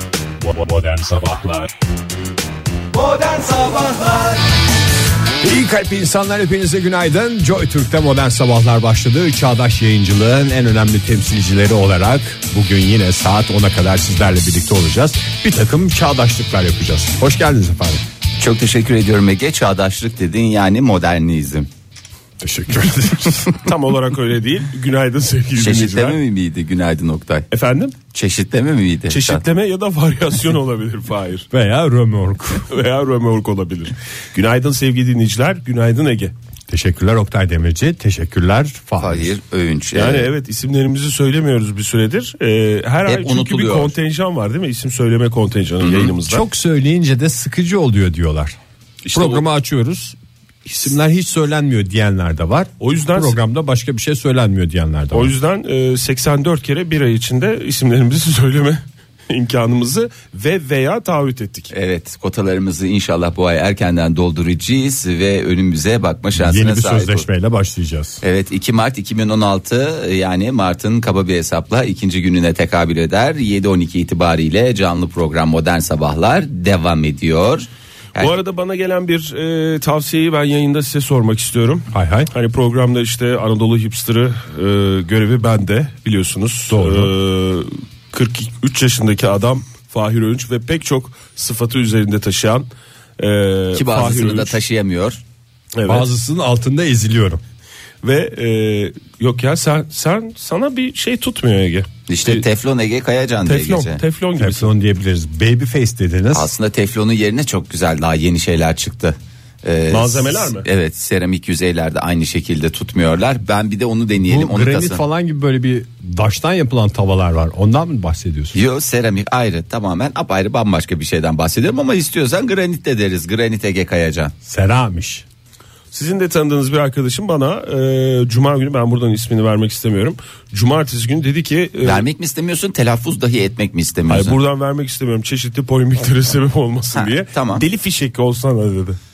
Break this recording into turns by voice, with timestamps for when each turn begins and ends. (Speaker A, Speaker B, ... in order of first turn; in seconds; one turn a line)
Speaker A: 0.5-1.6
Speaker A: 5.4-18.0
Speaker B: 18.4-21.7
Speaker A: 22.4-23.5
Speaker C: 23.6-26.2
Speaker B: 25.6-27.5
Speaker C: 27.5-28.0
Speaker B: 28.1-29.4
Speaker C: 29.1-31.5
Speaker A: 31.5-32.7
Speaker C: 32.7-36.4
Speaker A: 36.7-39.3
Speaker B: 39.0-40.3
Speaker C: 40.0-46.4
Speaker B: 43.1-44.0
Speaker A: 46.2-48.6
Speaker C: 49.1-49.4
Speaker A: 49.1-55.3
Speaker C: 52.8-53.4
Speaker C: 55.1-61.7
Speaker B: 61.7-67.2
Speaker A: 66.4-68.2
Speaker B: 68.2-78.3
Speaker C: 78.2-92.7
Speaker A: 81.9-82.3
Speaker A: 86.7-87.1
Speaker C: 93.2-94.6
Speaker B: 93.7-95.2
Speaker C: 95.8-96.1
Speaker A: 95.8-97.4
Speaker C: 98.0-102.4
Speaker B: 102.1-104.0
Speaker C: 103.5-104.7
Speaker A: 104.4-106.5
Speaker B: 106.3-115.0
Speaker C: 109.9-110.7
Speaker A: 114.2-118.6
Speaker B: 118.5-124.3
Speaker A: 124.5-125.2
Speaker C: 125.9-132.1
Speaker B: 131.8-134.4
Speaker C: 134.1-139.0
Speaker B: 136.9-137.6